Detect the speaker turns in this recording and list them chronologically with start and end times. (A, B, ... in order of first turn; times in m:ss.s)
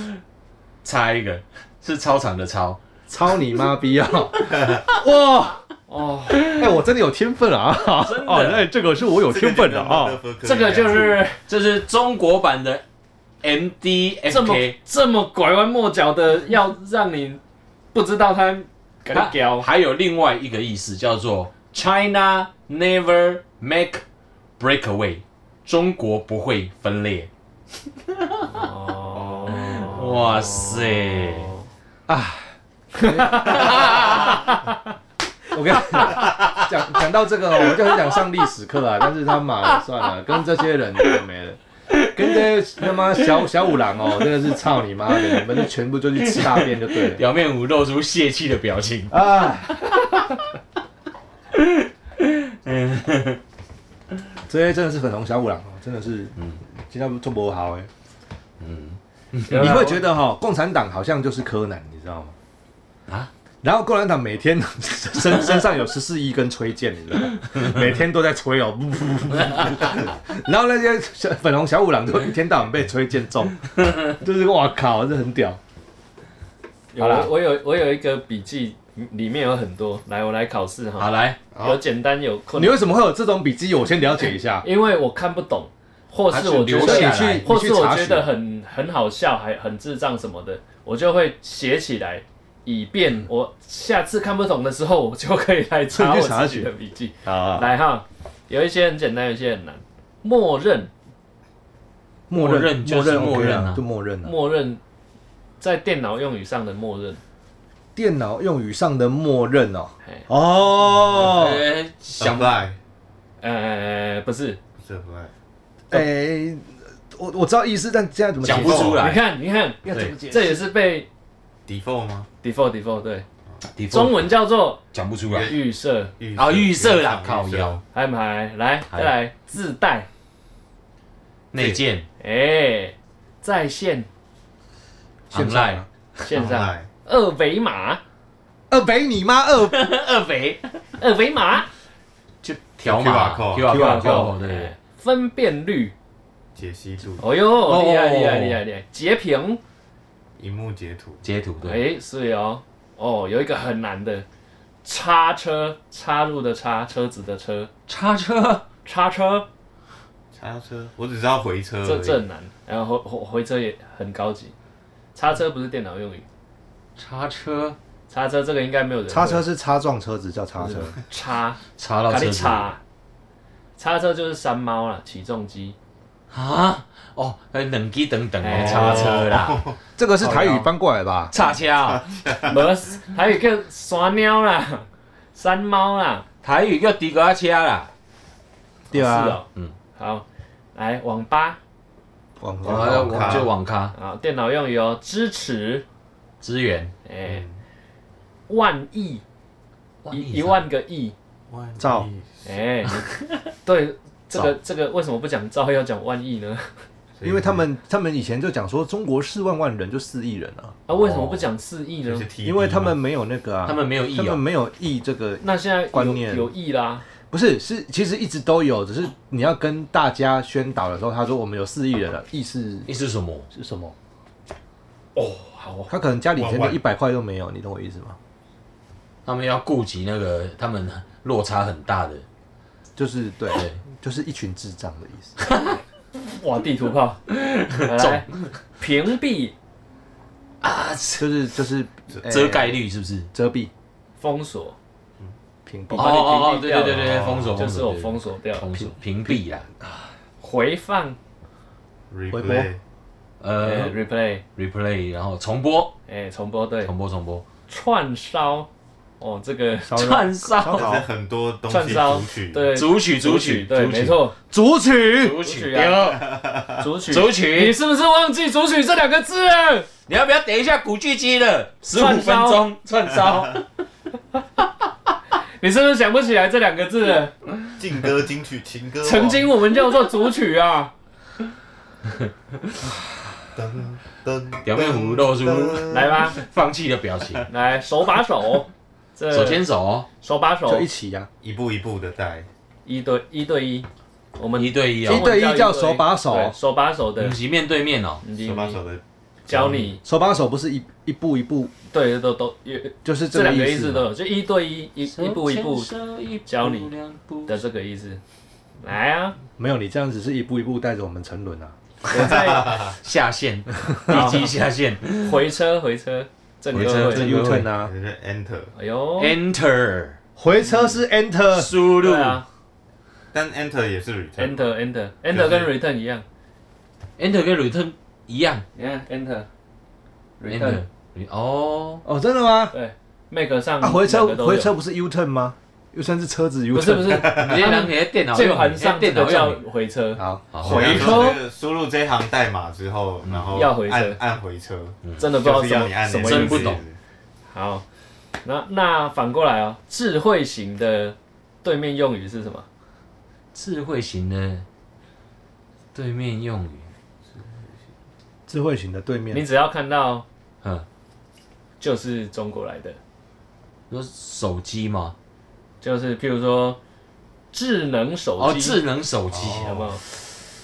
0:00.8-0:02.8 A
0:03.1-0:05.6 B
0:05.9-0:06.6 C
0:06.3-0:10.2 B
0:07.9-0:08.6 A
0:09.2-0:11.2 D
0:10.4-0:11.4 C
0:10.8-0:12.8 A
0:13.4-0:14.8 A
0:14.3-0:17.4 C
0:17.9-0:19.7 C
0:19.1-0:24.0 A
0:24.6-0:27.3 A
0:28.1-0:28.5 A
0:28.5-0:31.3 C
0:29.5-0:31.5 A
0:32.1-0:34.3 B
0:33.0-0:34.7 C
0:33.6-0:34.4 A
0:35.5-0:47.2 B
0:43.1-0:43.4 A
0:45.2-0:45.5 A
0:46.2-0:50.2 A
0:49.1-0:49.9 B
0:51.5-0:53.4 A
0:54.5-0:57.9 B
0:58.6-0:59.9 A
0:59.5-1:00.0 C
0:59.5-1:02.3 B
1:03.6-1:15.6 B
1:09.5-1:09.8 A
1:16.9-1:22.9 C
1:17.0-1:17.3 B
1:21.0-1:21.4 A
1:21.5-1:21.8 D
1:22.5-1:24.6 B
1:24.6-1:40.9 C
1:26.3-1:27.5 A
1:26.8-1:28.3 B
1:35.9-1:36.7 B
1:37.2-1:37.7 B
1:42.3-1:44.3 B
1:42.3-1:43.8 A
1:44.2-1:44.8 C
1:45.6-1:47.2 C
1:48.0-1:51.6 B
1:51.1-1:52.6 A
1:52.2-1:52.8 D
1:53.4-1:54.6 C
1:54.8-1:55.3 D
1:55.9-1:59.0 B
1:58.4-1:59.2 A
1:58.5-1:59.0 D
1:59.0-2:01.1 C
1:59.8-2:00.6 B
2:01.7-2:02.3 D
2:02.4-2:03.2 C
2:03.7-2:04.3 A
2:03.9-2:04.8 C
2:04.9-2:05.5 A
2:05.2-2:07.8 D
2:05.4-2:06.1 C
2:06.3-2:07.8 A
2:07.9-2:10.1 C
2:11.5-2:12.0 A
2:11.6-2:11.8 D
2:12.2-2:14.1 C
2:15.3-2:15.8 A
2:15.3-2:15.9 B
2:16.2-2:18.0 C
2:16.3-2:16.9 D
2:18.7-2:19.9 B
2:19.7-2:20.8 A
2:21.0-2:21.7 C
2:22.4-2:24.7 A
2:22.8-2:23.8 D
2:23.6-2:24.3 B
2:23.7-2:25.9 C
2:26.6-2:27.2 D
2:27.2-2:29.6 C
2:27.6-2:28.6 A
2:30.4-2:31.2 D
2:31.2-2:31.8 A
2:31.6-2:34.2 C
2:34.8-2:37.7 C
2:37.9-2:38.6 A
2:38.8-2:39.5 C
2:40.3-2:42.2 D
2:41.8-2:44.5 C
2:45.1-2:46.2 C
2:47.0-2:47.8 A
2:48.1-2:49.5 C
2:49.1-2:50.9 B
2:50.6-2:52.8 C
2:51.8-2:52.7 A
2:53.8-2:55.8 C
2:56.3-2:59.6 A
2:58.4-2:59.2 C
2:58.5-2:59.8 D
3:00.0-3:01.3 B
3:01.3-3:02.1 A
3:01.8-3:02.6 D
3:02.4-3:06.2 C
3:06.4-3:07.9 A
3:08.9-3:09.4 B
3:08.9-3:11.6 C
3:12.4-3:13.5 B
3:12.6-3:13.5 D
3:12.6-3:13.9 A
3:13.9-3:15.8 C
3:16.4-3:16.9 A
3:17.0-3:17.4 C
3:17.2-3:17.6 D
3:18.5-3:19.2 C
3:20.0-3:20.6 A
3:20.1-3:21.1 C
3:21.5-3:22.4 D
3:21.8-3:22.1 B
3:22.4-3:23.1 C
3:23.0-3:23.4 A
3:23.6-3:26.8 C
3:27.2-3:27.6 D
3:27.2-3:30.8 B
3:30.9-3:32.3 C
3:30.9-3:31.5 A
3:32.0-3:33.0 D
3:32.4-3:36.5 B
3:33.6-3:34.4 A
3:35.4-3:37.0 C
3:37.3-3:42.9 B
3:42.9-3:43.5 A
3:43.5-3:43.9 B
3:45.1-3:45.9 C
3:45.9-3:48.2 B
3:46.3-3:46.8 D
3:49.2-3:52.2 A
3:53.0-3:55.4 B
3:53.5-3:53.8 A
3:55.4-3:55.8 A
3:56.2-3:57.2 C
3:57.3-3:58.5 A
3:57.7-3:59.5 C
4:00.6-4:01.2 A
4:01.2-4:02.8 B
4:02.2-4:03.3 A
4:03.3-4:03.7 B
4:04.2-4:04.8 C
4:05.6-4:06.1 B
4:05.9-4:08.7 C
4:05.9-4:09.6 A
4:10.4-4:11.2 C
4:12.1-4:12.8 D
4:12.3-4:12.7 B
4:13.4-4:14.0 A
4:13.6-4:14.4 C
4:14.6-4:15.9 A
4:16.1-4:16.9 C
4:16.8-4:17.4 A
4:17.7-4:18.7 C
4:19.2-4:20.3 C
4:19.9-4:21.1 B
4:19.9-4:20.9 A
4:20.7-4:22.7 D
4:21.7-4:24.3 C
4:22.7-4:24.2 A
4:24.5-4:25.4 B
4:25.2-4:26.2 A
4:25.4-4:26.1 C
4:26.0-4:26.9 D
4:26.8-4:29.9 C
4:27.1-4:27.8 A
4:30.1-4:33.6 A
4:31.9-4:32.6 C
4:33.2-4:33.5 D
4:35.6-4:37.3 C
4:37.8-4:39.5 D
4:39.0-4:40.9 C
4:43.5-4:46.2 D
4:44.6-4:47.4 A
4:45.9-4:46.4 C
4:47.5-4:49.6 C
4:49.3-4:50.1 A
4:50.2-4:50.9 C
4:50.7-4:51.3 B
4:51.4-4:52.5 D
4:52.8-4:57.4 C
4:54.6-4:55.3 A
4:55.0-4:56.5 B
4:57.2-4:58.2 A
4:58.2-4:58.8 C
4:58.3-4:59.9 D
4:59.5-5:00.0 C
5:00.0-5:01.7 B
5:01.9-5:05.9 C
5:03.0-5:04.1 B
5:05.1-5:07.6 A
5:06.4-5:06.9 C
5:07.5-5:08.2 C
5:08.8-5:09.4 C
5:09.6-5:11.7 B
5:12.1-5:12.9 C
5:12.1-5:12.9 D
5:13.0-5:15.4 A
5:14.1-5:14.5 C
5:15.2-5:17.3 C
5:16.7-5:17.7 A
5:17.0-5:17.9 B
5:17.7-5:18.7 D
5:18.7-5:19.4 C
5:19.2-5:20.2 A
5:20.4-5:21.7 B
5:20.6-5:20.9 C
5:21.5-5:22.4 A
5:22.0-5:22.4 C
5:23.3-5:24.7 D
5:24.4-5:26.2 C
5:25.3-5:25.7 D
5:27.2-5:28.6 A
5:28.7-5:29.5 C
5:30.4-5:30.8 C
5:30.5-5:32.0 A
5:32.0-5:32.7 B
5:32.7-5:34.7 C
5:33.8-5:37.4 B
5:36.7-5:41.4 C
5:37.1-5:37.7 D
5:37.2-5:39.6 A
5:40.2-5:40.4 B
5:40.5-5:41.3 A
5:40.6-5:47.0 D
5:43.2-5:43.7 A
5:43.5-5:44.2 C
5:45.2-5:46.8 C
5:46.2-5:46.8 A
5:47.5-5:47.8 C
5:48.4-5:52.6 C
5:53.5-5:54.6 A
5:55.9-5:56.9 A
5:58.5-5:59.4 B
5:59.3-6:00.2 C
6:01.8-6:03.0 C
6:03.9-6:05.1 A
6:05.8-6:06.8 C
6:07.5-6:08.8 C
6:08.4-6:09.8 A
6:09.3-6:10.0 D
6:09.5-6:10.0 C